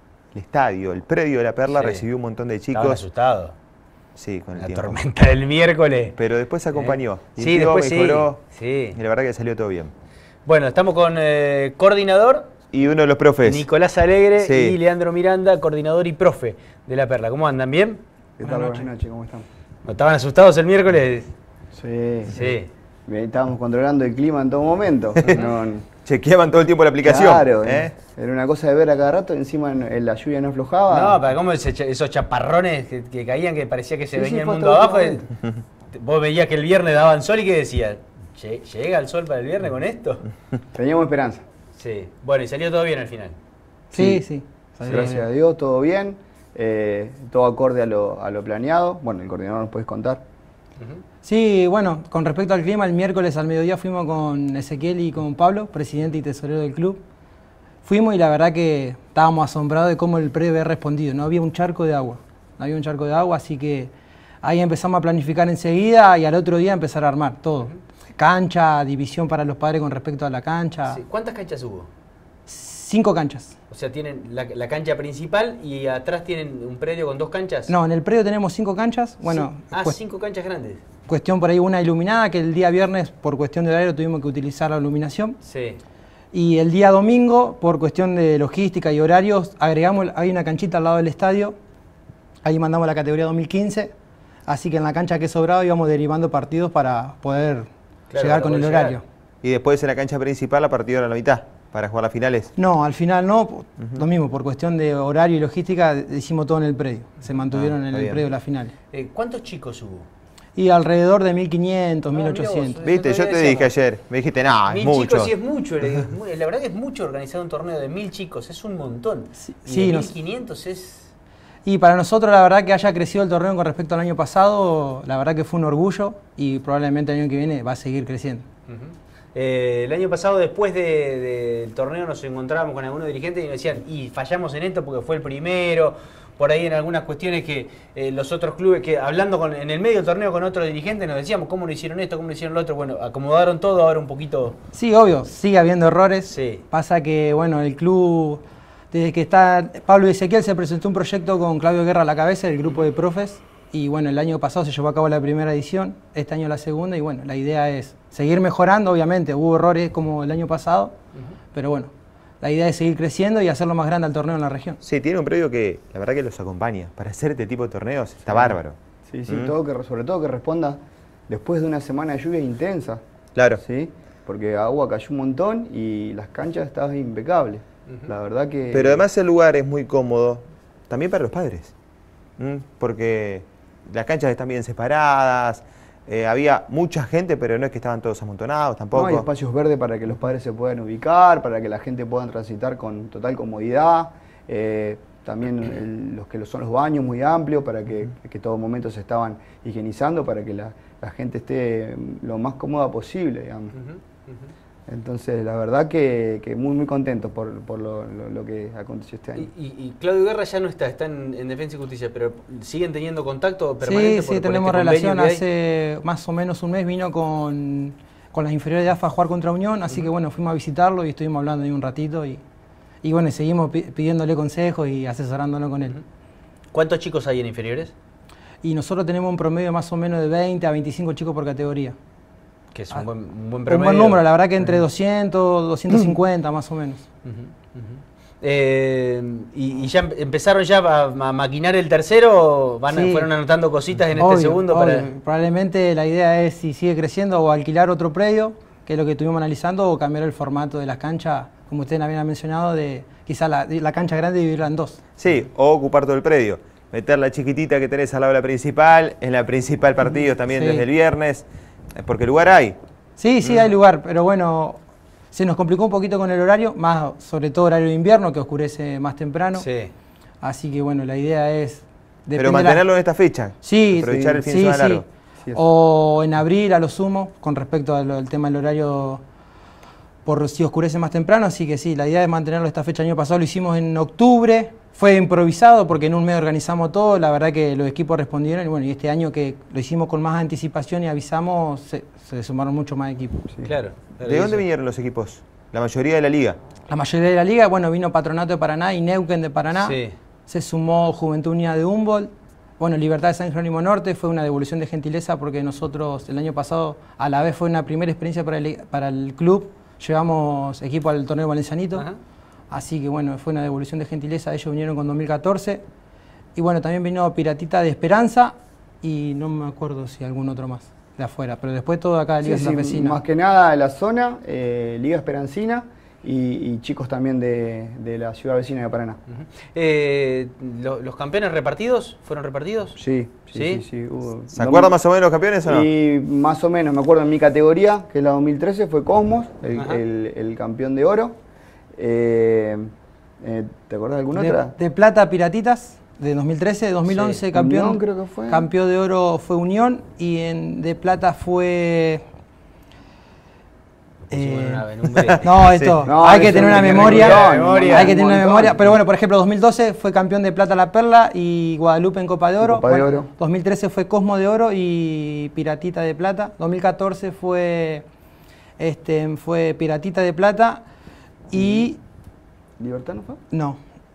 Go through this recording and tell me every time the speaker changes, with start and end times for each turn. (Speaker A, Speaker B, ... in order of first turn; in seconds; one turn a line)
Speaker A: 0.3-3.0
Speaker B: 1.7-2.0
Speaker B: 2.7-3.5
Speaker A: 4.2-5.0
Speaker B: 4.5-6.2
Speaker A: 6.1-9.9
Speaker B: 6.7-9.0
Speaker B: 10.4-12.5
Speaker A: 12.7-13.7
Speaker B: 13.4-18.0
Speaker A: 14.4-14.8
Speaker C: 18.4-19.4
Speaker D: 18.4-18.9
Speaker B: 19.9-21.3
Speaker C: 21.7-22.5
Speaker B: 22.3-22.7
Speaker C: 23.1-25.9
Speaker A: 26.0-27.9
Speaker C: 27.0-31.2
Speaker B: 30.9-35.3
Speaker C: 34.1-35.2
Speaker B: 35.9-40.2
Speaker C: 40.7-41.4
Speaker B: 41.7-43.4
Speaker C: 43.9-44.2
Speaker D: 43.9-45.2
Speaker B: 44.8-45.2
Speaker C: 44.9-50.2
Speaker B: 50.8-51.0
Speaker D: 51.2-57.0
Speaker D: 57.8-63.9
Speaker D: 64.4-71.0
Speaker B: 70.9-71.9
Speaker D: 72.5-73.5
Speaker B: 73.7-77.7
Speaker D: 77.7-80.0
Speaker B: 79.3-80.8
Speaker D: 81.1-85.4
Speaker B: 85.4-85.8
Speaker D: 86.3-91.5
Speaker D: 92.4-93.9
Speaker D: 94.5-99.0
Speaker B: 98.1-99.0
Speaker A: 99.4-102.5
Speaker D: 102.6-108.7
Speaker A: 107.5-108.2
Speaker B: 108.9-110.1
Speaker D: 110.5-112.8
Speaker B: 112.1-113.7
Speaker A: 112.8-115.3
Speaker B: 114.7-121.1
Speaker D: 119.4-120.2
Speaker D: 121.7-128.4
Speaker B: 128.7-144.6
Speaker D: 144.7-160.9
Speaker B: 146.3-146.6
Speaker D: 161.5-164.8
Speaker A: 164.8-169.5
Speaker C: 168.3-173.0
Speaker A: 173.3-173.6
Speaker C: 173.6-179.1
Speaker A: 178.7-181.7
Speaker A: 182.4-189.3
Speaker C: 188.9-203.7
Speaker B: 203.7-204.5
Speaker C: 204.9-209.5
Speaker B: 209.3-215.4
Speaker D: 213.8-222.4
Speaker D: 223.0-225.9
Speaker B: 226.7-227.9
Speaker D: 228.6-231.9
Speaker B: 232.7-234.8
Speaker D: 233.7-237.0
Speaker B: 237.2-245.1
Speaker D: 242.9-243.3
Speaker D: 244.2-255.0
Speaker A: 255.2-262.8
Speaker D: 260.1-260.9
Speaker D: 263.2-264.8
Speaker D: 265.3-269.6
Speaker B: 269.6-269.9
Speaker D: 270.4-272.8
Speaker A: 272.4-275.0
Speaker D: 273.6-279.2
Speaker C: 274.1-274.4
Speaker D: 280.2-293.4
Speaker B: 293.6-294.6
Speaker A: 294.2-296.6
Speaker D: 296.9-312.1
Speaker B: 299.7-300.1
Speaker D: 312.7-315.8
Speaker D: 316.6-323.2
Speaker C: 322.4-329.2
Speaker B: 329.3-333.0
Speaker C: 332.9-335.0
Speaker B: 333.5-333.8
Speaker A: 334.5-335.9
Speaker C: 335.6-341.4
Speaker B: 339.7-340.0
Speaker C: 341.9-344.7
Speaker D: 344.3-352.2
Speaker B: 347.1-347.4
Speaker C: 347.5-348.7
Speaker B: 354.3-358.1
Speaker D: 354.3-368.0
Speaker C: 356.0-358.8
Speaker C: 362.6-363.3
Speaker D: 368.8-370.8
Speaker D: 371.5-372.0
Speaker C: 371.6-371.8
Speaker C: 372.8-373.4
Speaker D: 373.5-373.8